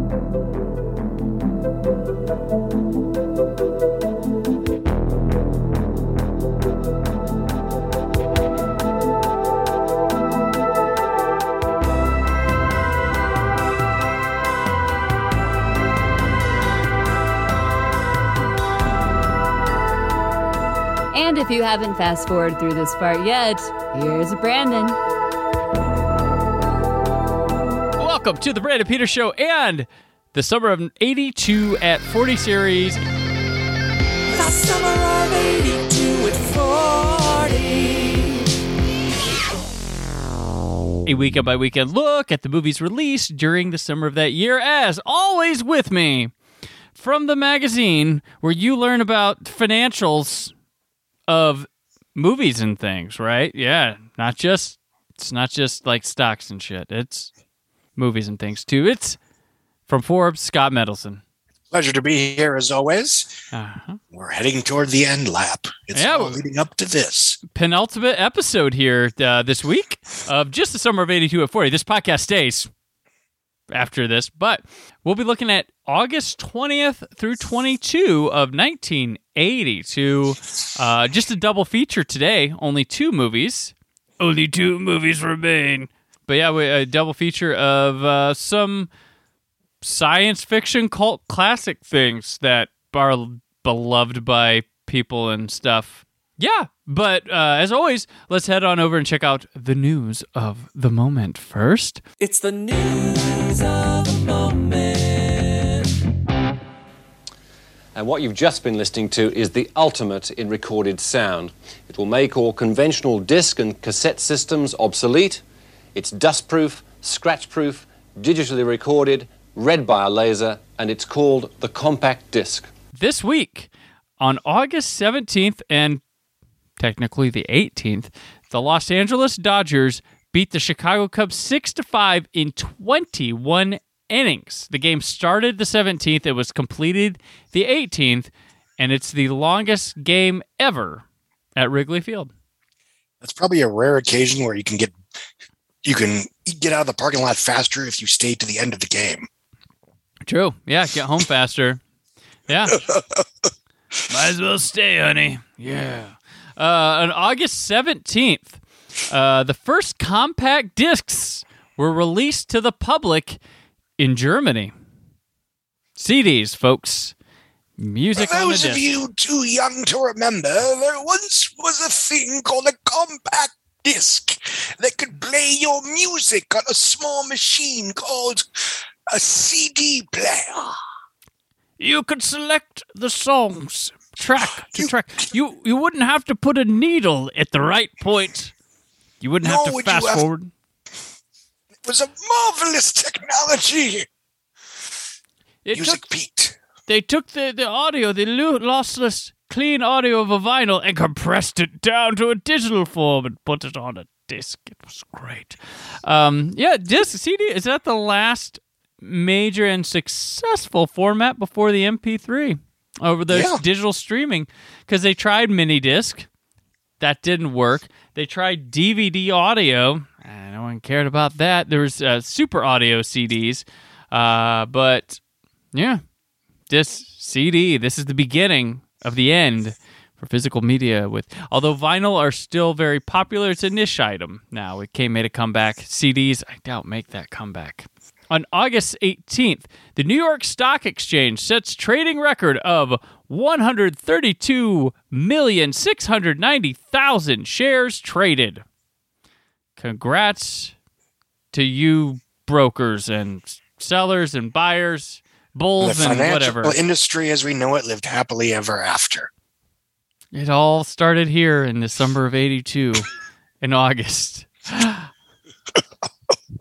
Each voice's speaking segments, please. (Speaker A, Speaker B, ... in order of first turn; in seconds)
Speaker A: 21.1-25.0
Speaker B: 28.0-33.0, 41.0-46.3, 47.0-50.5, 51.3-57.3, 58.0-59.2, 59.9-61.2, 63.5-64.0, 65.9-66.4, 67.5-72.7, 73.7-88.9, 89.8-102.0, 122.9-123.7, 124.2-126.0, 126.8-141.0, 141.6-142.3, 150.2-151.8, 152.5-152.8, 154.1-163.4, 164.0-164.7, 166.0-167.1, 167.8-168.8, 181.8-188.5, 189.2-190.5, 195.7-196.0, 196.9-216.3, 217.0-225.2, 225.7-226.0, 226.7-248.6, 249.8-250.8, 251.5-256.8, 260.3-263.1, 263.6-265.1
Speaker C: 34.5-38.3, 102.5-103.0
Speaker D: 61.7-63.3, 64.1-67.4, 143.2-145.0, 145.8-149.3, 152.7-153.2, 168.2-180.8, 184.6-184.9, 189.4-190.2, 191.8-194.1, 195.7-196.6, 213.3-213.6, 255.8-259.3
Speaker E: 102.2-102.5, 108.0-115.4, 115.9-122.7